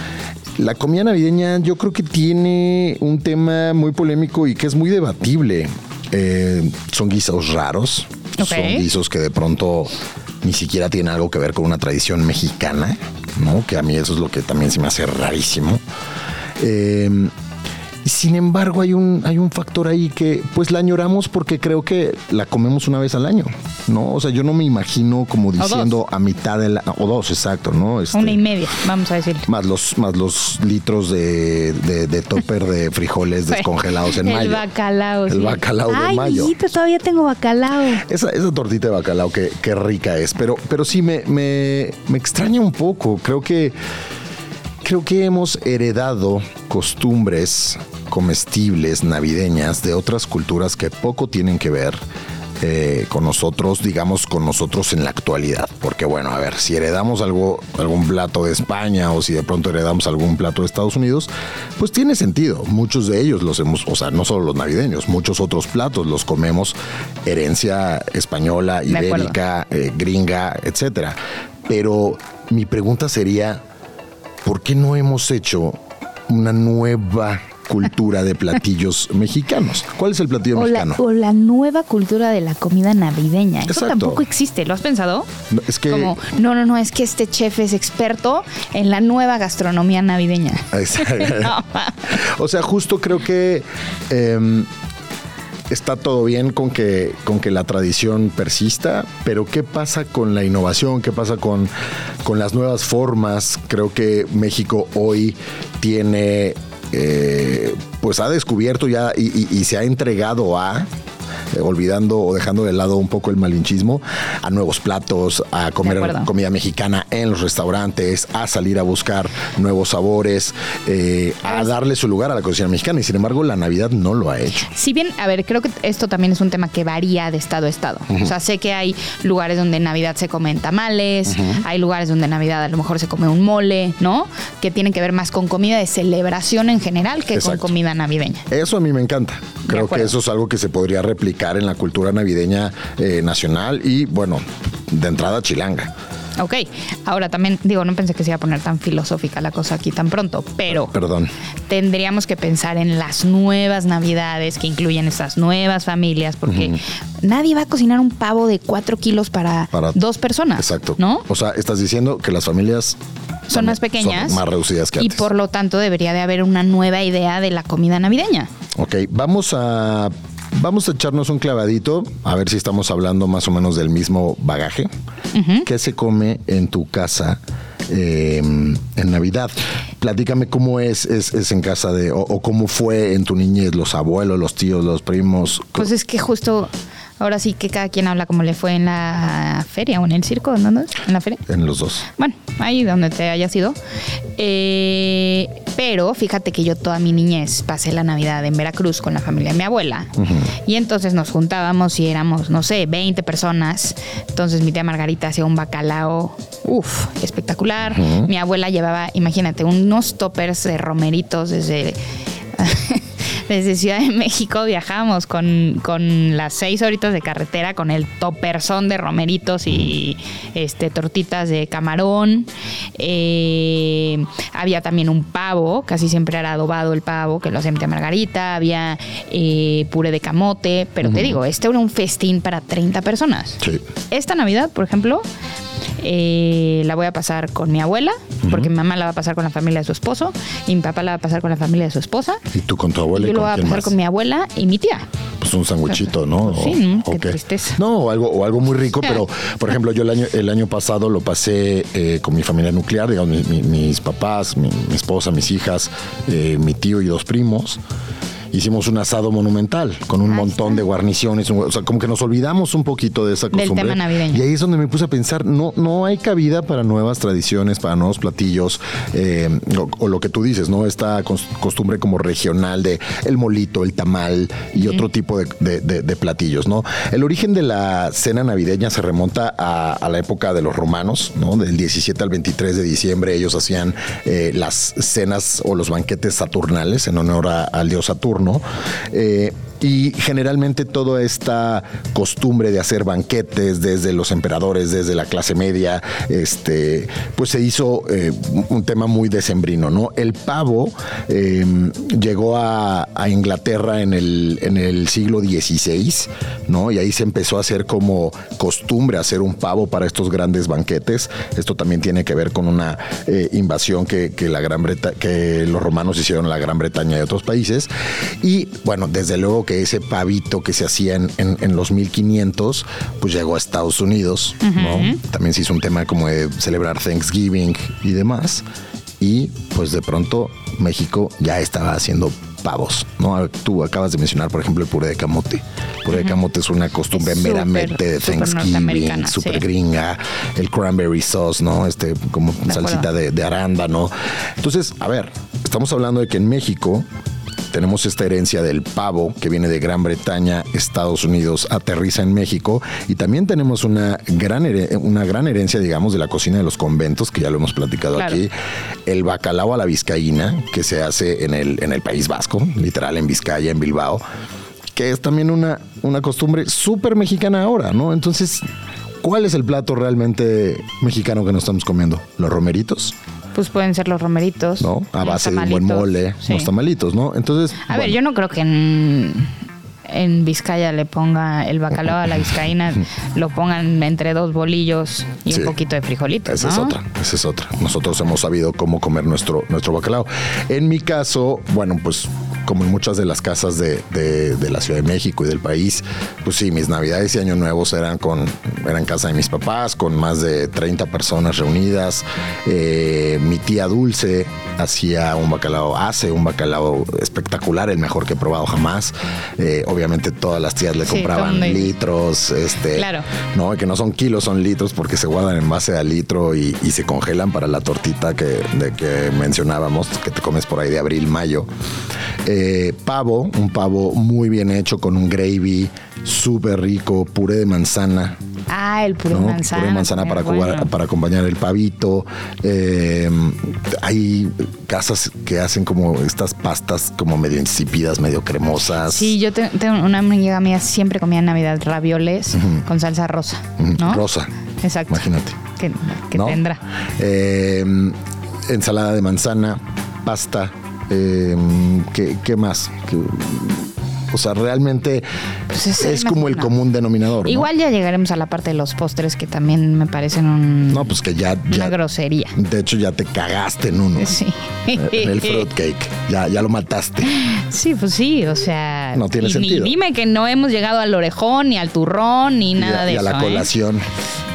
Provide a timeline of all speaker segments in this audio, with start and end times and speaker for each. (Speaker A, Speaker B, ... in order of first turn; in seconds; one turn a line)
Speaker A: 0.6-15.8
Speaker B: 8.4-8.9
Speaker A: 16.6-17.3
Speaker A: 18.0-28.4
Speaker B: 25.6-25.9
Speaker B: 28.1-29.5
Speaker A: 29.5-34.6
Speaker B: 33.5-38.0
Speaker A: 35.3-36.5
Speaker A: 38.0-43.8
Speaker A: 44.8-52.0
Speaker A: 52.6-73.6
Speaker B: 68.9-69.3
Speaker A: 74.4-81.0
Speaker B: 80.5-85.3
Speaker A: 83.7-84.2
Speaker A: 85.5-86.2
Speaker B: 85.9-92.0
Speaker A: 90.7-91.6
Speaker A: 92.1-94.7
Speaker A: 95.7-101.7
Speaker A: 102.2-110.9
Speaker A: 111.5-124.7
Speaker B: 115.8-116.3
Speaker B: 121.5-121.7
Speaker B: 124.7-138.4
Speaker A: 131.3-131.6
Speaker A: 137.3-137.7
Speaker A: 138.5-145.9
Speaker B: 139.7-140.1
Speaker B: 146.4-150.9
Speaker A: 150.7-151.3
Speaker B: 151.7-161.2
Speaker A: 156.5-156.8
Speaker A: 159.7-160.0
Speaker A: 160.6-163.0
Speaker B: 163.5-164.4
Speaker A: 163.5-165.3
Speaker B: 165.0-168.5
Speaker A: 168.8-174.9
Speaker B: 175.3-175.7
Speaker A: 175.7-185.9
Speaker B: 185.8-191.4
Speaker A: 191.5-192.1
Speaker B: 192.2-193.8
Speaker B: 194.4-200.1
Speaker A: 200.2-200.5
Speaker B: 200.7-212.0
Speaker A: 207.9-208.3
Speaker B: 212.6-233.6
Speaker A: 231.0-231.4
Speaker B: 234.1-235.2
Speaker B: 236.0-242.4
Speaker A: 238.4-238.7
Speaker A: 242.5-243.9
Speaker B: 243.2-245.1
Speaker A: 245.4-257.8
Speaker B: 245.9-247.8
Speaker A: 258.5-317.9
Speaker B: 260.3-260.8
Speaker B: 263.5-264.4
Speaker A: 318.4-328.6
Speaker B: 324.6-325.2
Speaker A: 329.2-347.1
Speaker B: 337.1-339.6
Speaker B: 342.7-343.1
Speaker A: 347.7-358.5
Speaker A: 359.1-364.2
Speaker A: 364.9-368.6
Speaker A: 369.2-373.1
Speaker B: 373.5-376.7
Speaker A: 374.8-378.2
Speaker B: 377.9-379.5
Speaker B: 380.1-387.0
Speaker A: 385.5-385.7
Speaker A: 386.4-421.7
Speaker B: 411.0-411.9
Speaker B: 412.9-413.3
Speaker A: 422.4-428.4
Speaker B: 428.7-430.9
Speaker A: 429.3-439.3
Speaker B: 439.0-444.2
Speaker A: 442.5-442.8
Speaker A: 443.8-444.5
Speaker B: 444.8-445.2
Speaker A: 445.1-445.6
Speaker B: 445.8-446.8
Speaker A: 446.3-446.6
Speaker A: 447.2-455.2
Speaker B: 455.7-456.7
Speaker A: 456.0-457.7
Speaker B: 457.4-461.2
Speaker A: 460.9-462.0
Speaker B: 461.7-462.6
Speaker A: 462.6-464.4
Speaker B: 464.2-465.7
Speaker A: 464.9-467.4
Speaker B: 467.3-473.7
Speaker A: 469.1-470.0
Speaker A: 472.8-474.1